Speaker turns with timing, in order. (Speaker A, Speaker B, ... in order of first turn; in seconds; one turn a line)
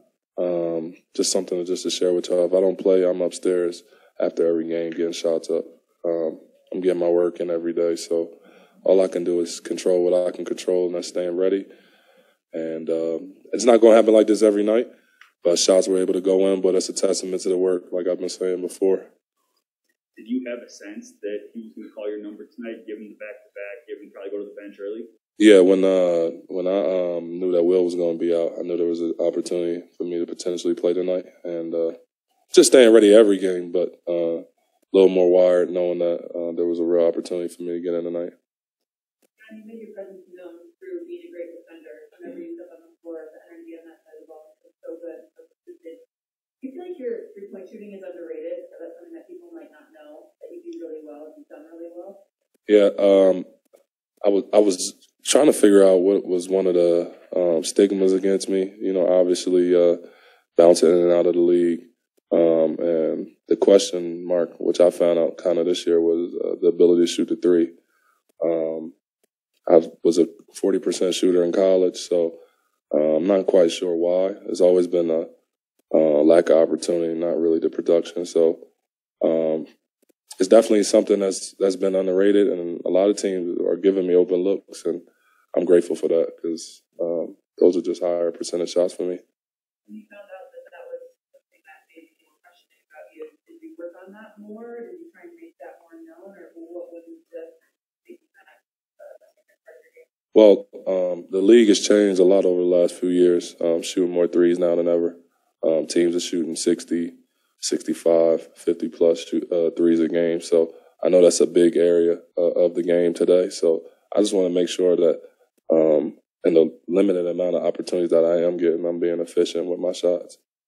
Speaker A: 0.4-11.7
Speaker A: 12.5-14.9
Speaker A: 15.4-19.1
Speaker B: 20.2-25.1
Speaker A: 25.4-32.0
Speaker A: 32.5-38.3
Speaker C: 39.4-46.0
Speaker C: 46.6-52.2
Speaker A: 52.7-53.5
Speaker A: 54.2-60.0
Speaker A: 60.6-67.7
Speaker A: 68.4-69.0
Speaker A: 69.7-72.4
Speaker A: 72.9-75.3
Speaker A: 75.9-78.6
Speaker A: 79.2-79.7
Speaker A: 80.4-89.2
Speaker C: 89.9-100.1
Speaker A: 100.3-120.4